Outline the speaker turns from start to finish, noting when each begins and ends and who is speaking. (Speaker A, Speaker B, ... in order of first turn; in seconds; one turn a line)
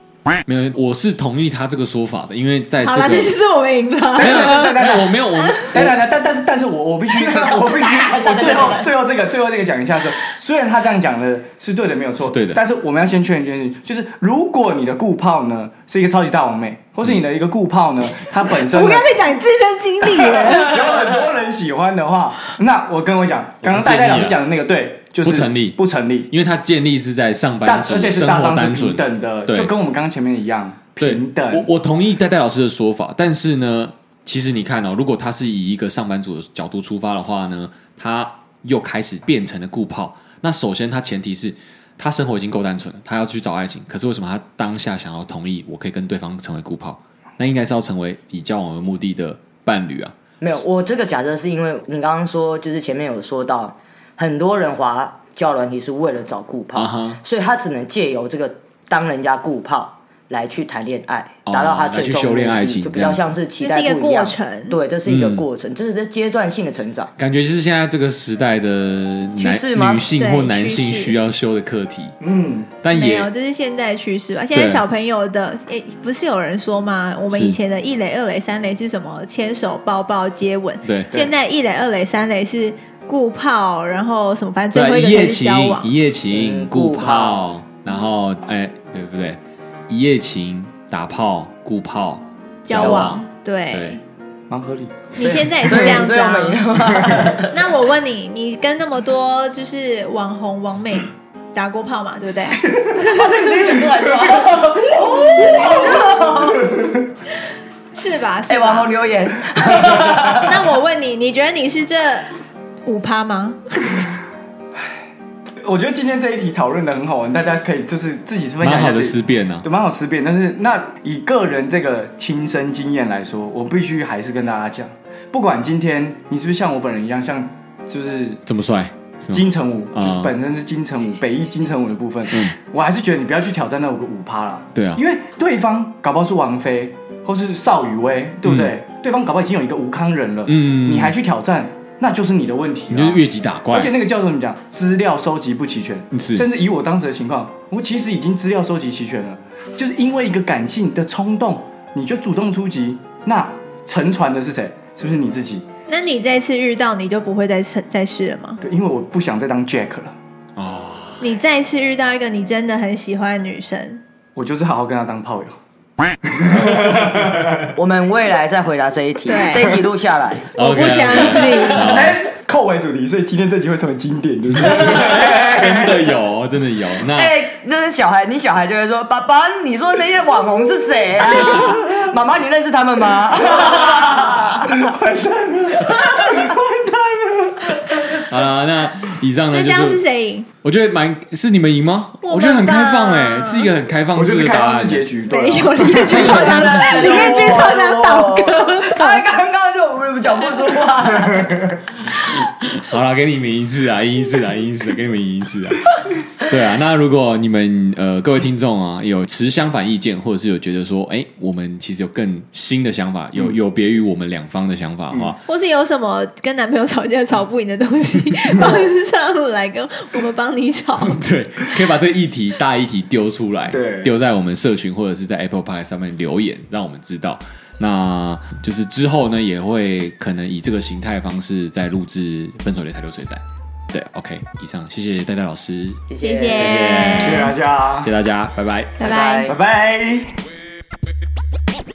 Speaker A: 0.5-3.4
Speaker B: 2.8-4.8
Speaker C: 4.1-19.1
Speaker A: 4.2-6.0
Speaker D: 7.1-8.9
Speaker A: 12.2-12.6
Speaker B: 18.4-20.9
Speaker C: 20.3-26.3
Speaker A: 23.6-24.4
Speaker A: 25.2-25.8
Speaker A: 26.3-29.7
Speaker C: 27.6-31.7
Speaker A: 31.0-50.1
Speaker D: 50.4-67.1
Speaker A: 56.7-57.2
Speaker A: 61.5-63.3
Speaker B: 63.6-64.8
Speaker A: 65.1-65.4
Speaker A: 67.2-72.2
Speaker D: 69.4-70.1
Speaker B: 70.2-71.2
Speaker C: 72.2-72.7
Speaker A: 72.8-73.3
Speaker B: 72.9-85.9
Speaker A: 74.5-74.8
Speaker A: 77.3-77.6
Speaker A: 80.8-81.2
Speaker A: 84.7-94.0
Speaker D: 86.3-87.5
Speaker B: 92.7-94.0
Speaker C: 94.5-95.1
Speaker B: 95.2-96.7
Speaker D: 95.2-97.6
Speaker C: 97.0-97.4
Speaker B: 97.5-103.5
Speaker D: 102.9-106.9
Speaker B: 104.9-106.4
Speaker C: 105.5-106.1
Speaker B: 107.9-108.9
Speaker D: 108.5-110.7
Speaker B: 110.3-112.3
Speaker B: 112.8-113.9
Speaker C: 115.6-128.4
Speaker A: 118.6-119.6
Speaker A: 128.5-130.3
Speaker C: 129.3-155.7
Speaker A: 134.8-135.0
Speaker A: 138.4-138.7
Speaker A: 140.5-141.2
Speaker A: 142.9-143.9
Speaker A: 146.1-146.5
Speaker B: 155.9-158.6
Speaker C: 158.6-160.2
Speaker A: 160.6-161.2
Speaker B: 161.2-164.0
Speaker C: 164.4-165.6
Speaker C: 166.2-167.7
Speaker D: 167.8-170.5
Speaker B: 169.2-169.8
Speaker B: 170.6-172.0
Speaker A: 170.6-172.2
Speaker C: 171.7-176.2
Speaker A: 174.7-177.3
Speaker D: 177.0-184.8
Speaker C: 183.6-188.2
Speaker D: 186.0-186.5
Speaker A: 188.1-190.0
Speaker B: 189.5-190.5
Speaker A: 190.6-195.1
Speaker B: 192.2-193.7
Speaker C: 194.2-196.2
Speaker B: 195.3-199.3
Speaker A: 195.8-197.7
Speaker D: 196.0-201.8
Speaker A: 202.8-215.4
Speaker B: 215.4-221.7
Speaker A: 221.0-239.0
Speaker C: 223.7-224.1
Speaker D: 236.1-237.1
Speaker B: 236.2-237.5
Speaker C: 237.2-238.1
Speaker B: 239.0-239.5
Speaker D: 239.0-239.6
Speaker C: 239.5-240.4